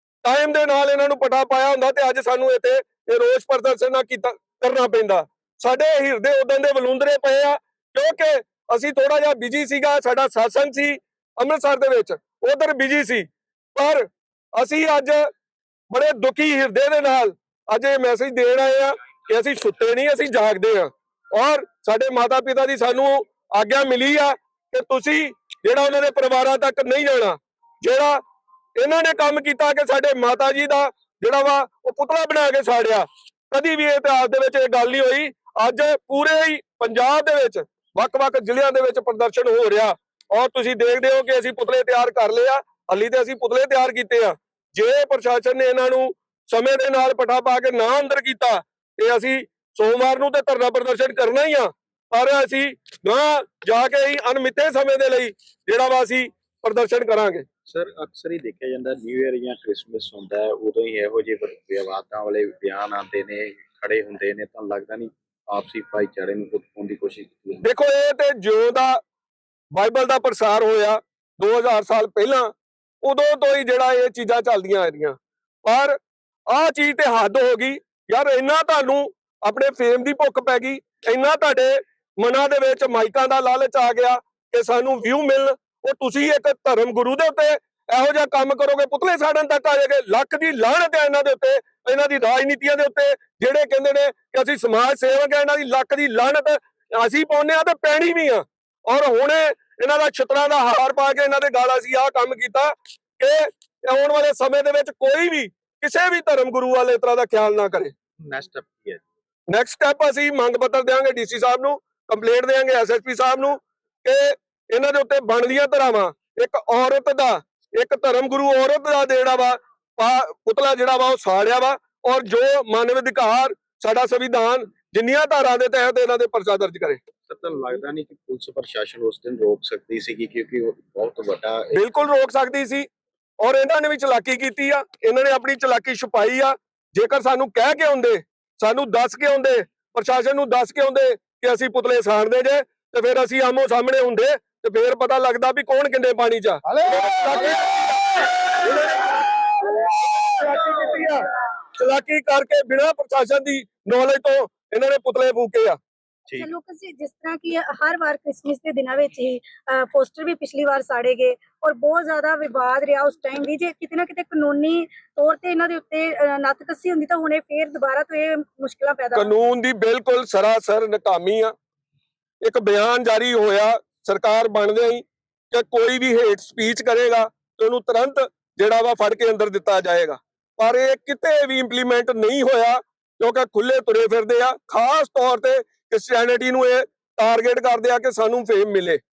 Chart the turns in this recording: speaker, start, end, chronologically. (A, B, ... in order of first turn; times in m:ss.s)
0:00.2-0:15.3 A
0:15.9-0:28.2 A
0:28.8-0:57.4 A
0:57.7-1:07.6 B
1:07.6-1:09.0 A
1:09.7-1:16.0 A
1:16.5-1:47.9 A
1:48.2-1:49.0 B
1:49.5-2:07.0 A
2:07.3-2:11.8 B
2:11.7-2:12.9 A
2:13.4-2:31.2 A
2:31.8-2:35.8 A
2:36.3-2:49.4 C
2:49.1-2:51.5 A
2:52.4-3:09.0 A